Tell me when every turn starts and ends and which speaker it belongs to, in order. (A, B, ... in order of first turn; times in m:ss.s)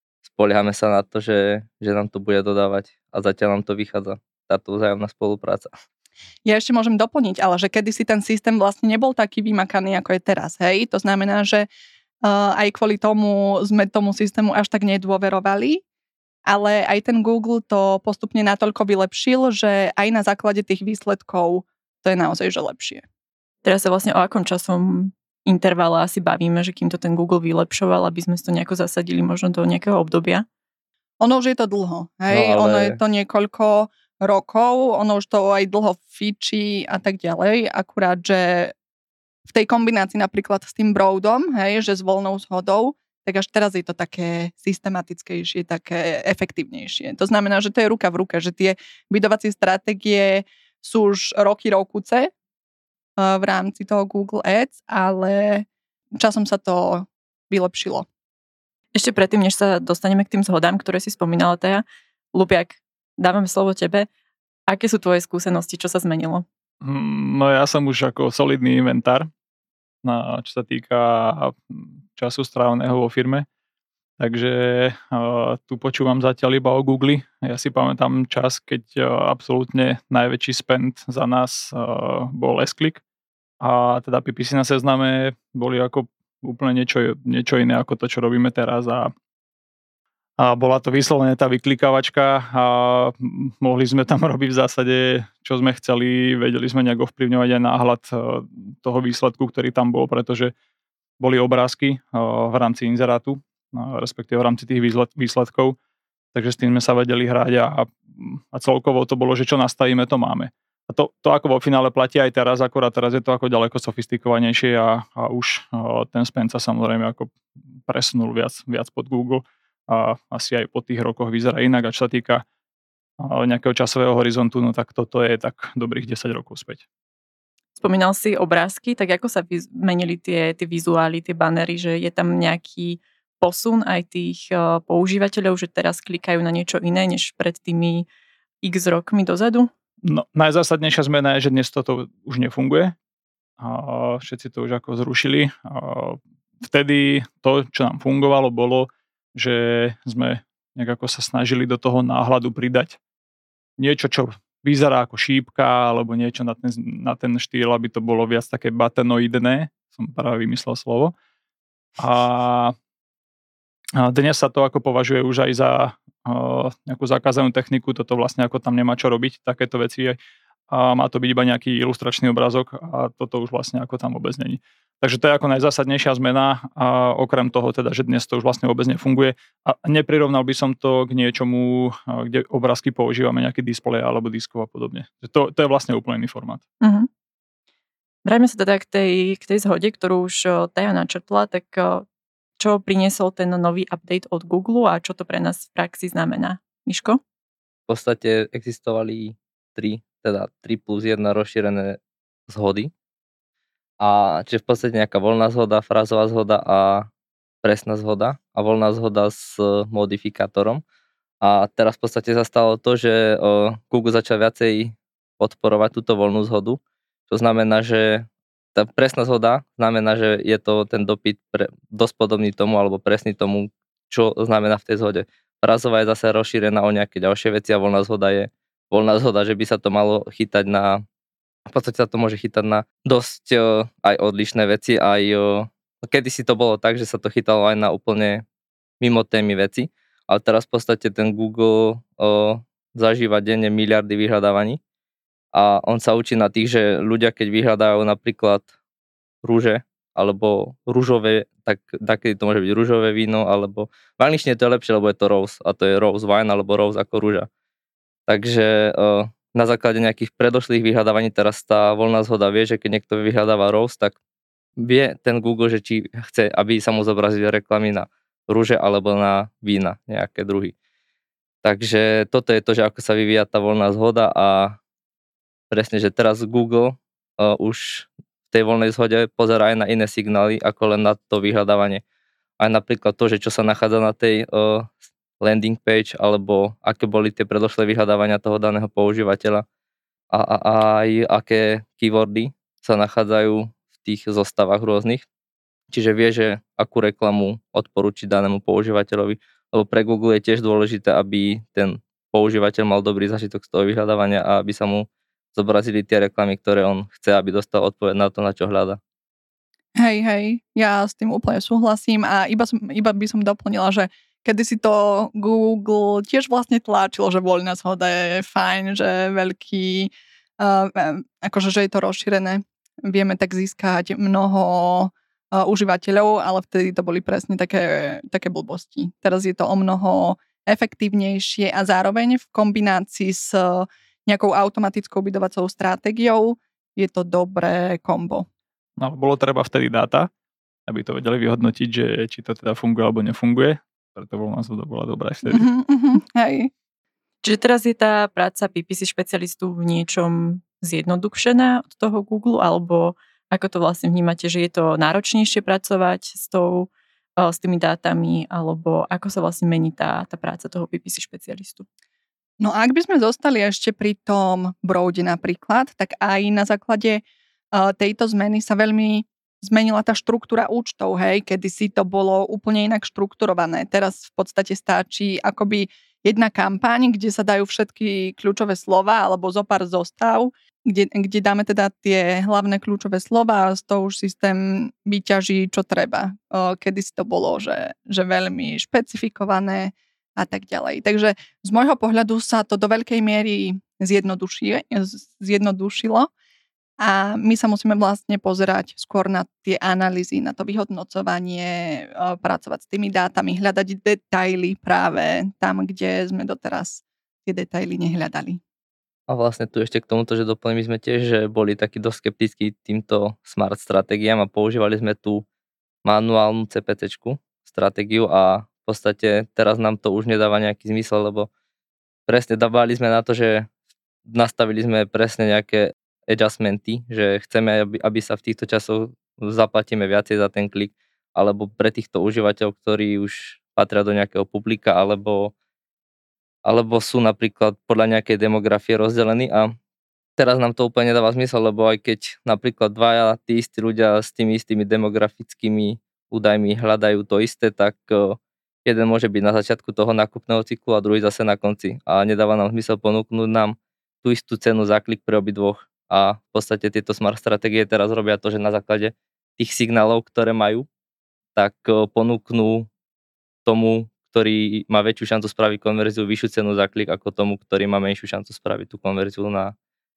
0:00.2-0:05.7 A
0:06.5-0:11.7 B
0:12.2-0:15.8 B
0:16.5-0:23.0 B
0:23.6-0:30.4 C
0:31.2-0:38.7 B
0:32.3-0:33.0 A
0:39.4-0:52.3 B
0:53.2-0:58.1 B
0:59.0-1:04.1 C
1:04.7-1:06.4 C
1:06.8-1:09.3 D
1:10.0-1:13.5 D
1:14.2-1:23.0 D
1:23.6-1:29.1 D
1:30.4-1:40.5 D
1:41.2-1:45.8 D
1:46.3-2:02.4 D
2:03.2-2:06.8 D
2:07.8-2:18.1 C
2:18.6-2:19.7 C
2:20.0-2:23.0 D
2:23.6-2:33.0 D
2:33.8-2:41.1 D
2:42.0-2:42.7 D
2:44.0-2:50.2 D
2:50.7-3:06.6 D
3:06.8-3:07.1 C
3:08.2-3:12.0 C
3:12.6-3:17.2 C
3:17.9-3:22.9 A
3:24.0-3:27.1 A
3:27.6-3:30.8 A
3:31.4-3:51.0 A
3:51.7-3:58.4 A
3:59.0-4:04.8 A
4:05.5-4:08.7 A
4:09.4-4:17.5 A
4:18.3-4:24.2 A
4:24.8-4:30.7 A
4:31.6-4:34.8 A
4:35.7-4:42.0 A
4:42.6-4:49.6 A
4:50.3-4:55.3 A
4:55.9-5:09.0 A
5:10.0-5:38.5 B
5:39.0-5:40.3 D
5:40.9-5:45.7 D
5:45.5-5:46.7 B
5:47.4-6:01.8 C
6:02.6-6:36.3 B
6:37.0-6:48.6 B
6:49.3-6:55.4 A
6:56.0-7:01.5 A
7:02.3-7:03.7 A
7:04.3-7:15.5 A
7:16.6-7:19.8 A
7:20.4-7:40.9 A
7:41.6-7:42.9 A
7:43.6-7:49.7 A